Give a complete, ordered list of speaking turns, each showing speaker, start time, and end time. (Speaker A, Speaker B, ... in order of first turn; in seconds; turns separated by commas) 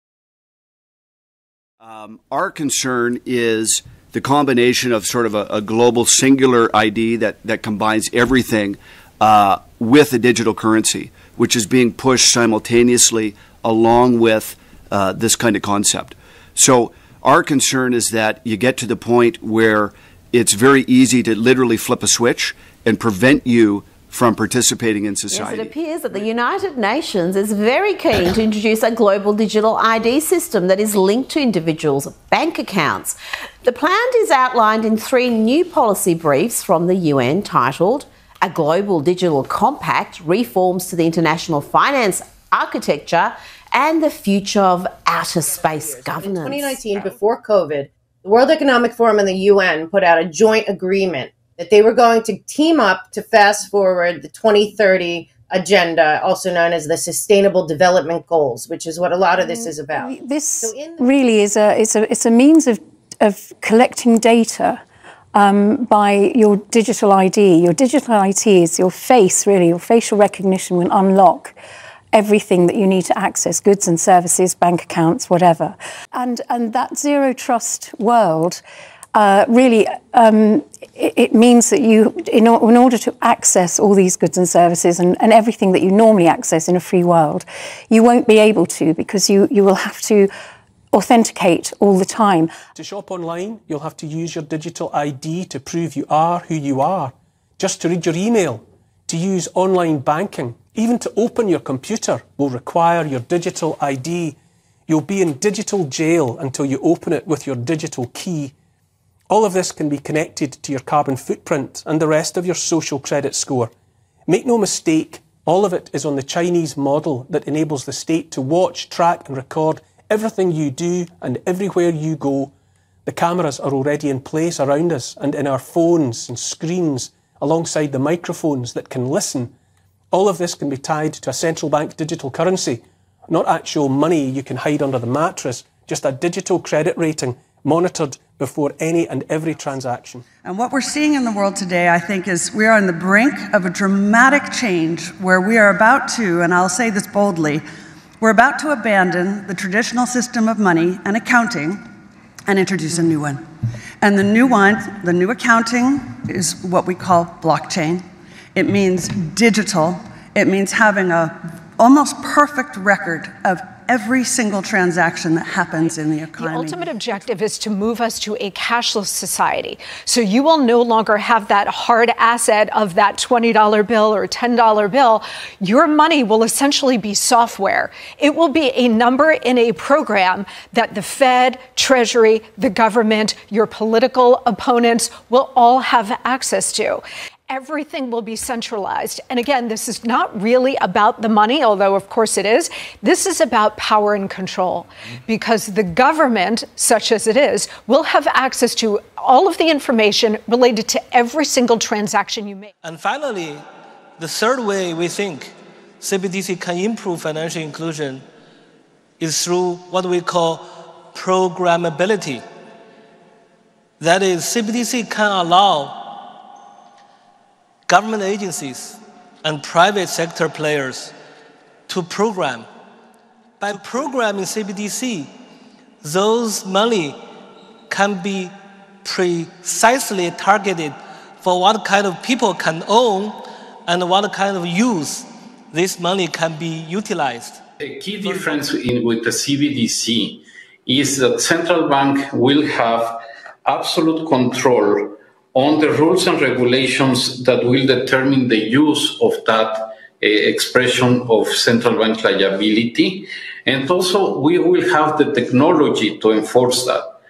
Speaker A: 1.8-25.8, Speaker B: 25.3-46.9, Speaker C: 45.8-60.1, Speaker D: 59.4-64.8, Speaker C: 60.6-61.0, Speaker D: 65.3-71.5, Speaker D: 72.1-78.6, Speaker D: 79.2-90.3, Speaker D: 90.9-92.5, Speaker E: 92.8-104.4, Speaker E: 104.9-108.5, Speaker E: 109.3-113.7, Speaker E: 114.3-122.5, Speaker E: 123.1-129.5, Speaker E: 130.1-140.3, Speaker F: 140.4-147.6, Speaker F: 148.2-151.8, Speaker F: 152.5-153.4, Speaker F: 154.0-166.9, Speaker G: 166.4-202.8, Speaker H: 211.6-212.1, Speaker H: 214.0-215.9, Speaker H: 217.9-218.6, Speaker H: 219.5-221.1, Speaker H: 221.9-222.6, Speaker H: 224.4-225.3, Speaker H: 226.3-227.2, Speaker H: 229.1-229.5, Speaker H: 230.0-230.9, Speaker H: 231.5-232.2, Speaker H: 233.0-233.4, Speaker H: 233.9-235.0, Speaker H: 235.8-236.5, Speaker I: 237.8-257.1